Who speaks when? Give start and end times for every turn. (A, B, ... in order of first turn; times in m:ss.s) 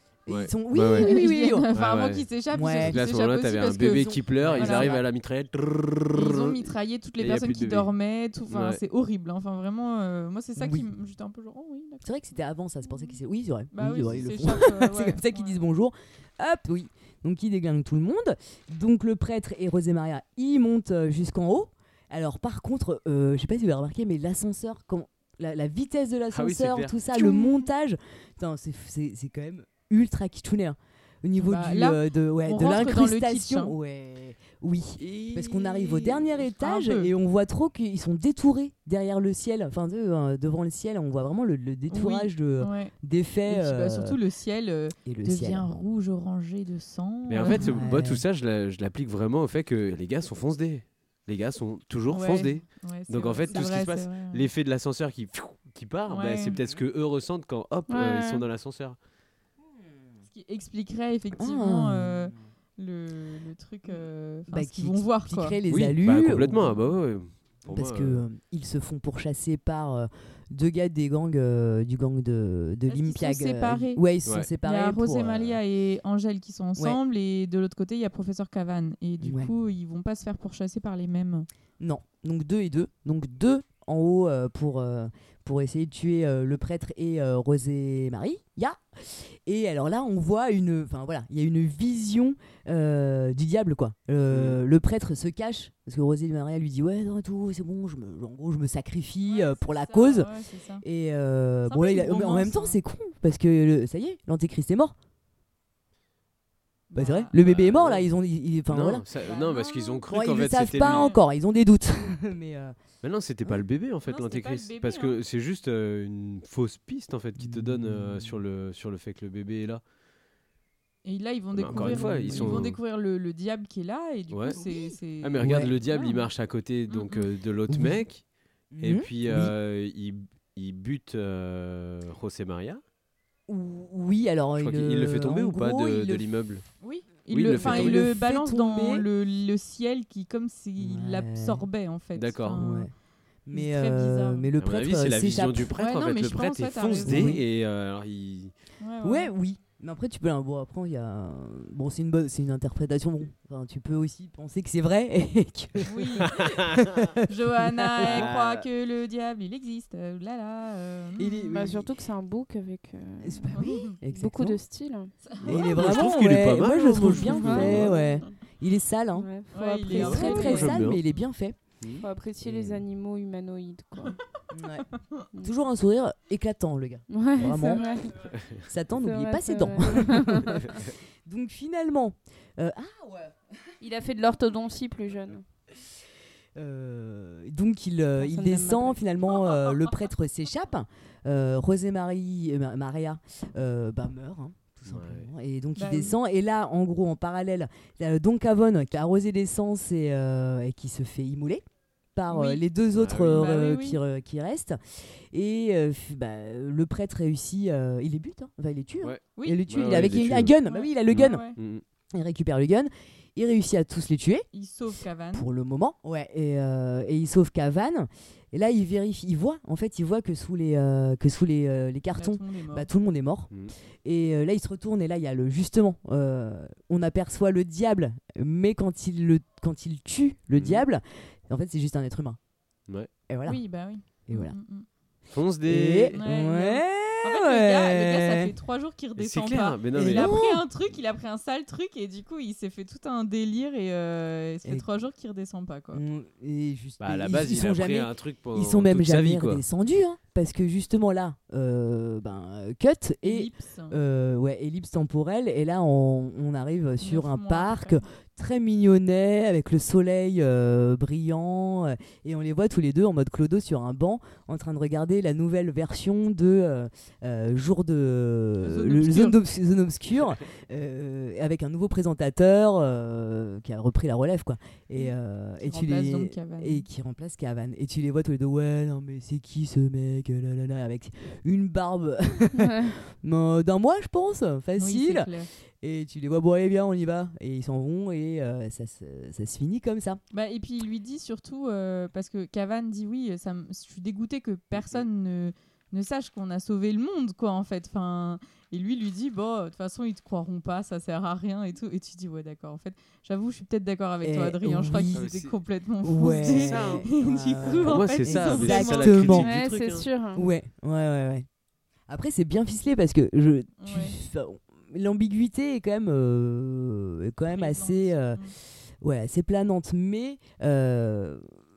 0:00.2-0:01.7 A
0:00.3-0:02.3 B
0:00.9-0:05.0 C
0:02.5-0:03.0 A
0:02.8-0:07.9 B
0:04.3-0:05.0 A
0:06.1-0:12.0 C
0:08.5-0:08.8 B
0:10.6-0:10.9 A
0:12.0-0:44.2 A
0:13.7-0:15.6 C
0:26.3-0:27.0 B
0:27.1-0:27.6 C
0:31.4-0:33.7 C
0:35.0-0:36.4 B
0:36.5-0:37.1 C
0:41.9-0:42.9 C
0:43.5-0:47.8 C
0:45.0-0:45.7 A
0:47.3-0:59.0 B
0:47.5-0:48.2 A
0:52.1-0:54.5 C
0:56.1-0:56.6 C
0:56.5-0:56.8 A
0:57.9-0:58.4 D
1:00.3-1:05.6 C
1:01.4-1:02.3 A
1:04.5-1:06.6 A
1:05.7-1:08.2 B
1:07.7-1:15.6 A
1:12.9-1:14.0 C
1:14.6-1:21.5 C
1:19.2-1:19.5 A
1:21.8-1:40.3 A
1:34.3-1:34.6 B
1:39.2-1:40.8 C
1:40.8-1:44.9 A
1:41.7-1:42.8 C
1:46.9-1:47.3 C
1:46.9-1:49.0 A
1:47.4-1:48.1 B
1:48.7-1:51.1 B
1:49.2-1:50.0 C
1:50.1-1:52.8 A
1:50.8-1:51.2 C
1:53.0-1:59.8 B
1:54.1-1:55.2 C
1:57.4-1:58.4 A
2:01.0-2:06.2 C
2:01.5-2:02.8 B
2:01.7-2:02.7 A
2:04.3-2:04.6 B
2:04.5-2:05.7 A
2:05.2-2:08.2 B
2:06.9-2:07.2 D
2:07.7-2:08.0 A
2:08.7-2:09.5 A
2:08.8-2:12.8 B
2:13.5-2:16.2 A
2:14.6-2:16.6 B
2:16.8-2:22.9 C
2:17.3-2:18.0 B
2:17.5-2:19.1 A
2:20.8-2:21.6 A
2:22.1-2:22.6 B
2:22.6-2:22.9 A
2:23.4-2:25.7 A
2:23.5-2:24.5 C
2:24.6-2:28.5 B
2:25.8-2:27.4 C
2:27.0-2:27.4 A
2:28.8-2:29.3 C
2:29.0-2:38.3 A
2:35.9-2:36.6 C
2:36.2-2:37.1 B
2:37.2-2:41.5 C
2:38.0-2:38.7 B
2:41.2-2:41.9 A
2:41.5-2:45.1 D
2:43.2-2:44.6 A
2:43.5-2:43.9 C
2:45.3-2:45.6 C
2:45.4-2:48.0 B
2:45.4-2:49.3 A
2:47.2-2:48.4 D
2:49.1-2:50.6 D
2:49.5-2:51.2 C
2:49.9-2:51.6 A
2:50.0-2:51.0 B
2:51.8-2:52.8 B
2:52.0-2:54.2 D
2:54.5-2:54.9 A
2:55.4-2:57.8 A
2:57.1-2:58.3 D
2:58.3-2:58.6 B
2:58.6-3:03.4 A
2:58.9-3:00.8 D
3:03.8-3:05.4 D
3:06.6-3:31.5 A
3:08.2-3:09.0 C
3:14.8-3:15.3 B
3:15.8-3:16.2 C
3:22.3-3:22.6 C
3:22.9-3:23.5 B
3:23.3-3:24.0 C
3:29.0-3:30.5 B
3:29.4-3:31.6 C
3:31.1-3:31.8 B
3:32.1-3:34.5 A
3:34.5-3:35.5 C
3:35.3-3:43.5 A
3:42.2-3:42.9 C
3:44.0-3:52.4 A
3:50.6-3:50.8 B
3:53.3-3:53.6 A
3:53.4-3:54.8 C
3:54.1-3:54.6 A
3:55.3-3:56.2 B
3:55.7-3:58.5 A
3:56.2-4:06.0 C
3:59.2-4:00.3 B
3:59.9-4:00.6 A
4:05.9-4:45.3 A
4:07.0-4:09.6 B
4:13.2-4:14.0 C
4:17.0-4:18.0 C
4:28.6-4:29.4 C
4:35.6-4:36.9 C
4:42.6-4:43.0 D
4:44.8-4:45.5 C
4:45.8-4:50.2 A
4:50.3-5:09.5 C
4:54.7-4:55.1 B
5:04.2-5:05.2 A
5:05.1-5:05.6 B
5:06.0-5:09.5 A
5:06.2-5:07.1 B
5:07.8-5:10.0 B
5:09.3-5:10.4 D
5:10.3-5:11.4 A
5:12.1-5:18.4 A
5:13.8-5:14.2 C
5:17.5-5:18.5 C
5:19.0-5:21.4 A